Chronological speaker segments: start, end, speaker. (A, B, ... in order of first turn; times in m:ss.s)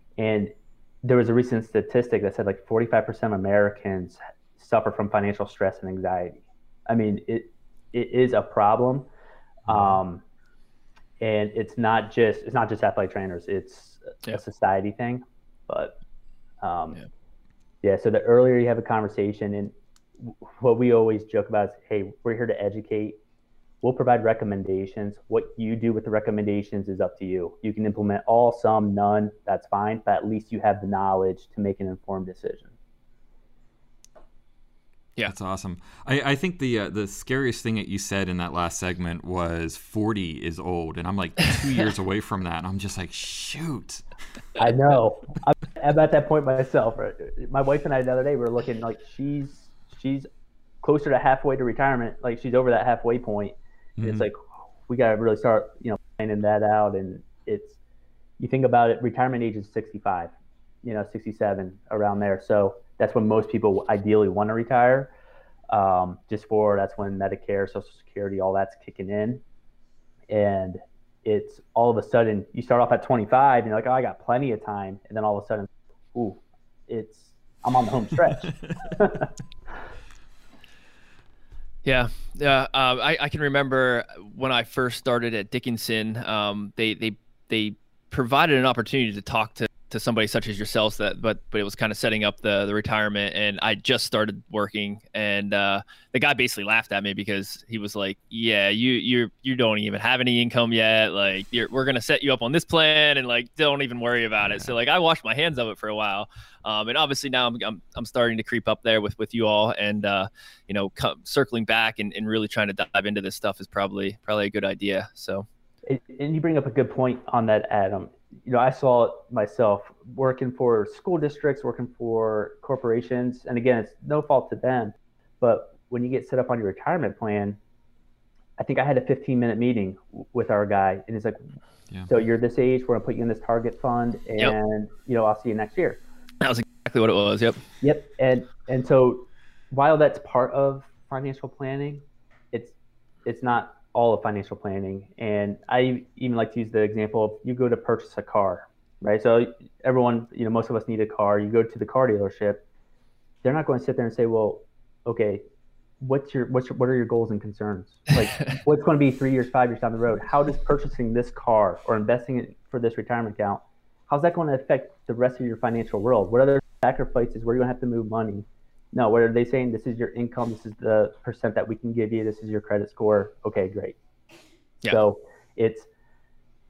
0:00.2-0:09.1 A
0:09.6-0:10.2 A
0:11.2-0:16.0 A
0:16.6-0:17.0 A
0:17.8-0:23.2 A
0:23.8-0:32.7 A
0:35.2-0:44.0 B
0:44.6-0:50.3 A
0:50.8-0:57.8 A
0:54.0-0:54.2 B
0:58.4-1:00.3 A
1:00.8-1:05.1 A
1:05.7-1:09.4 A
1:10.3-1:19.3 A
1:21.8-1:55.4 C
1:55.8-2:07.6 A
2:08.6-2:11.4 A
2:12.1-2:16.0 A
2:16.4-2:17.6 C
2:17.8-2:32.6 A
2:33.4-2:35.4 A
2:36.0-2:54.0 A
2:54.9-2:55.9 A